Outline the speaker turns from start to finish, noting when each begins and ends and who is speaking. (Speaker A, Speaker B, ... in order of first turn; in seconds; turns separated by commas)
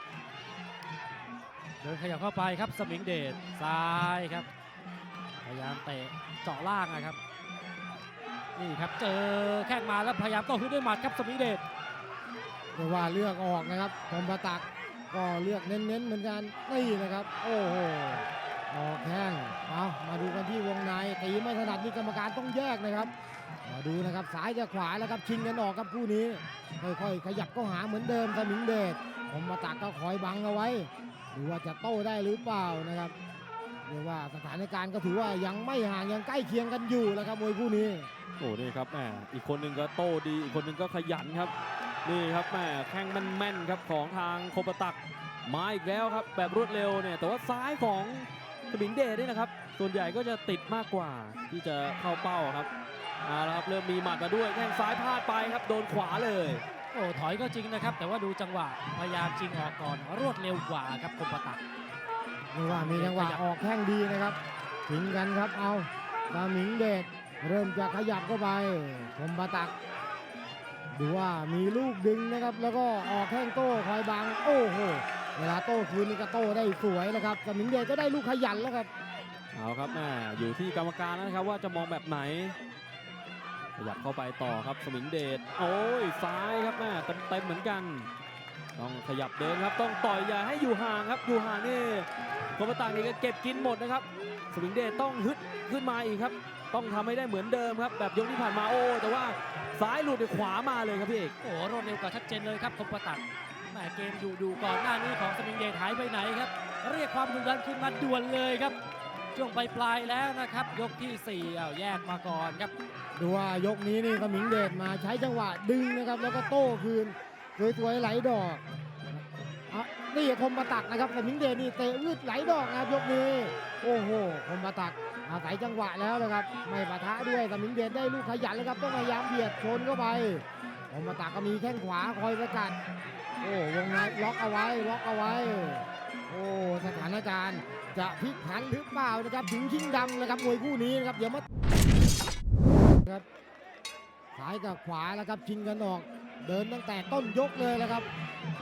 Speaker A: 1.8-4.5, Speaker A: 5.4-7.2, Speaker A: 8.6-11.6, Speaker B: 12.7-23.1, Speaker B: 23.6-33.1, Speaker B: 33.9-38.1, Speaker C: 38.4-41.5, Speaker C: 42.0-52.7, Speaker C: 53.2-56.6, Speaker A: 56.9-61.6, Speaker B: 62.5-64.4, Speaker A: 62.7-63.4, Speaker B: 64.9-69.7, Speaker B: 70.9-78.9, Speaker C: 79.5-82.5, Speaker C: 83.8-88.1, Speaker C: 88.8-101.3, Speaker A: 101.4-108.8, Speaker A: 109.3-112.7, Speaker B: 113.2-118.6, Speaker B: 119.1-132.8, Speaker B: 133.4-141.4, Speaker B: 144.3-148.1